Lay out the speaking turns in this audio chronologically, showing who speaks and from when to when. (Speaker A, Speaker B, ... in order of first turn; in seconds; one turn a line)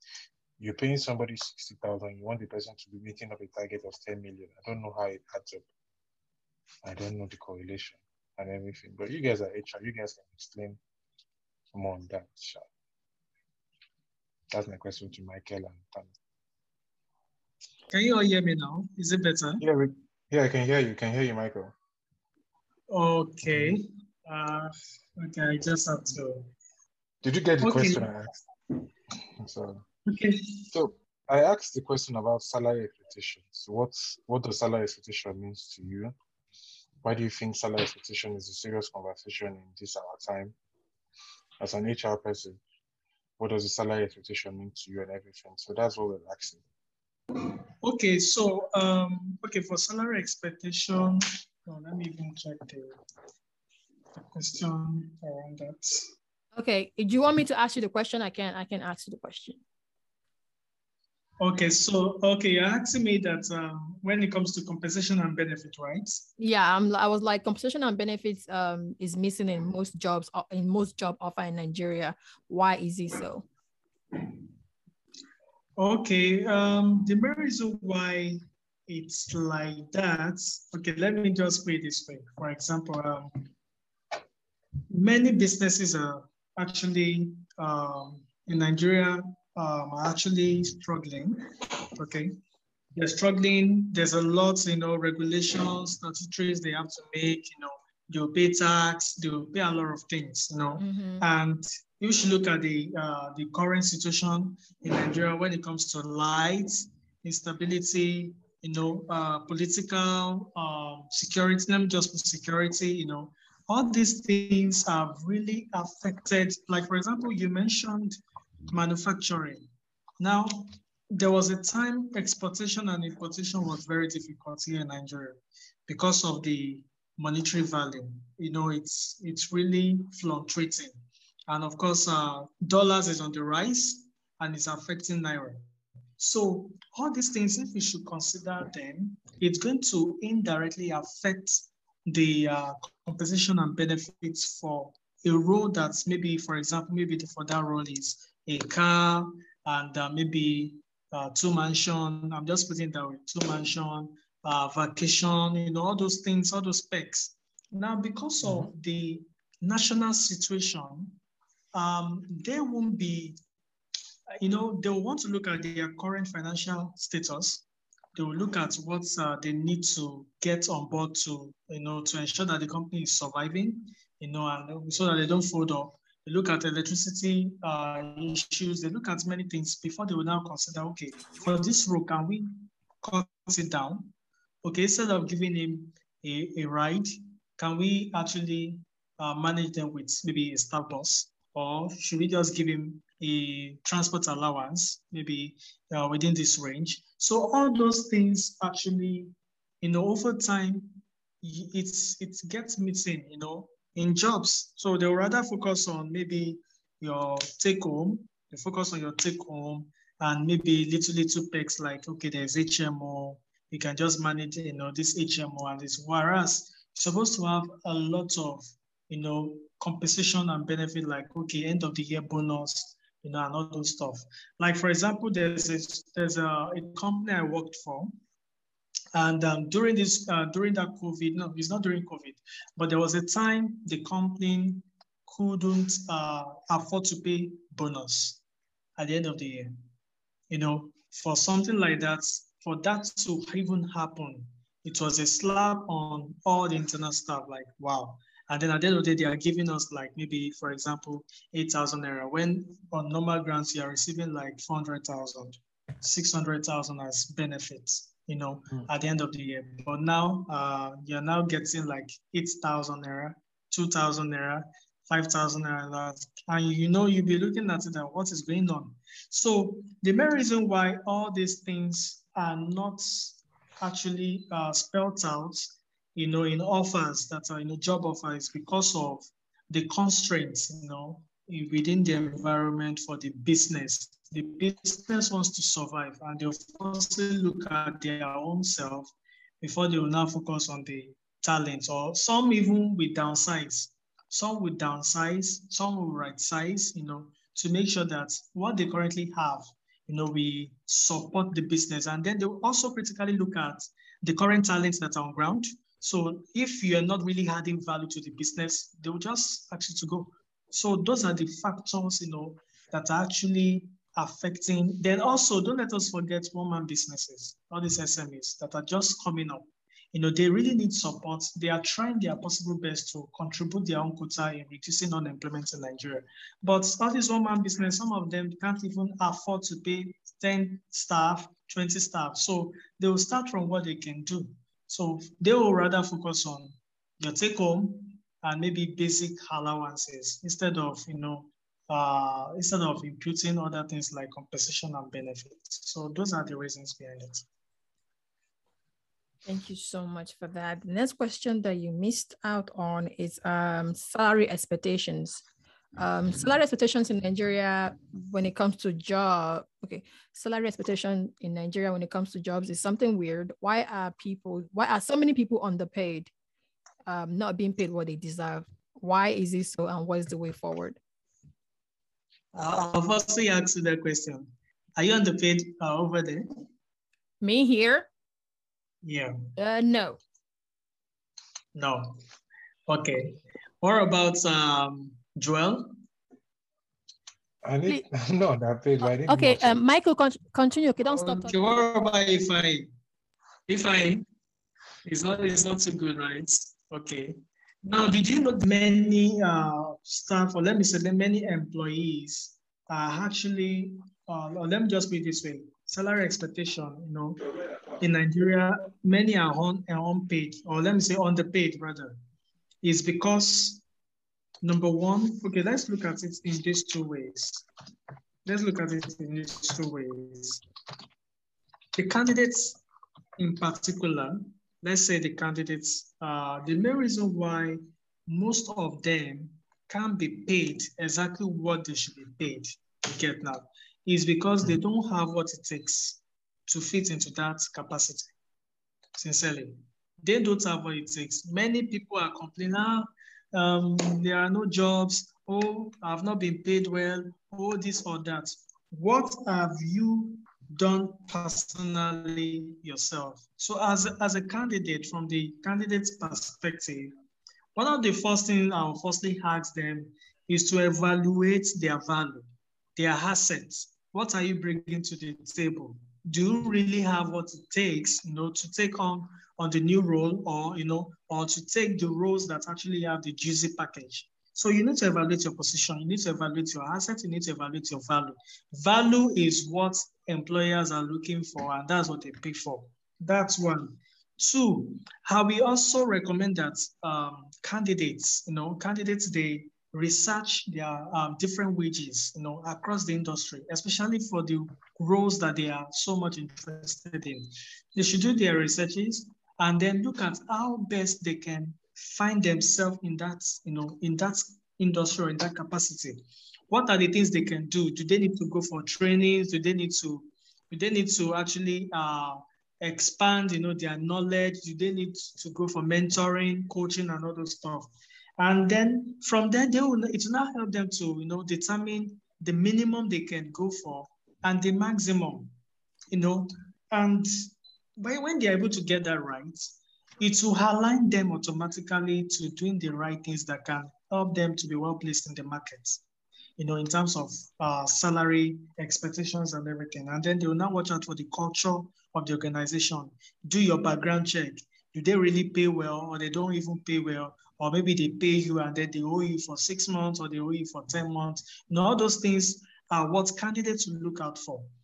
Speaker A: 0.6-5.7
Speaker A: 6.8-10.8
Speaker A: 11.7-12.6
Speaker A: 14.5-16.1
Speaker B: 17.9-19.6
Speaker A: 19.6-21.7
Speaker B: 22.9-26.5
Speaker A: 27.2-28.4
Speaker B: 27.6-28.0
Speaker A: 29.4-29.9
Speaker B: 30.1-30.6
Speaker A: 30.7-36.1
Speaker A: 37.0-40.5
Speaker A: 41.6-42.6
Speaker A: 43.4-46.6
Speaker B: 47.4-52.9
Speaker B: 54.3-56.1
Speaker C: 56.5-59.6
Speaker B: 61.4-66.2
Speaker C: 66.4-73.5
Speaker B: 75.8-83.5
Speaker B: 84.9-91.4
Speaker B: 92.0-92.4
Speaker B: 92.9-119.6
Speaker C: 100.8-101.2
Speaker B: 120.2-135.6
Speaker B: 136.2-161.2
Speaker A: 158.4-158.7
Speaker B: 161.7-163.4
Speaker B: 164.4-184.1
Speaker B: 184.6-228.2
Speaker B: 229.1-238.4
Speaker B: 239.0-239.8
Speaker B: 240.5-347.4
Speaker C: 349.4-355.4
Speaker C: 356.0-366.3
Speaker C: 367.1-371.0
Speaker B: 372.5-376.4
Speaker C: 377.4-378.1
Speaker B: 379.0-379.3
Speaker C: 379.6-380.2
Speaker B: 381.7-382.2
Speaker B: 382.9-386.0
Speaker A: 387.6-389.8
Speaker C: 389.2-391.6
Speaker B: 391.0-392.9
Speaker B: 393.7-394.2
Speaker B: 395.1-412.2
Speaker B: 412.8-413.8
Speaker B: 414.6-417.6
Speaker B: 418.4-420.6
Speaker B: 421.9-422.8
Speaker B: 423.4-438.3
Speaker B: 439.2-457.1
Speaker B: 457.7-525.5
Speaker B: 526.1-527.3
Speaker B: 528.0-536.0
Speaker B: 536.6-554.7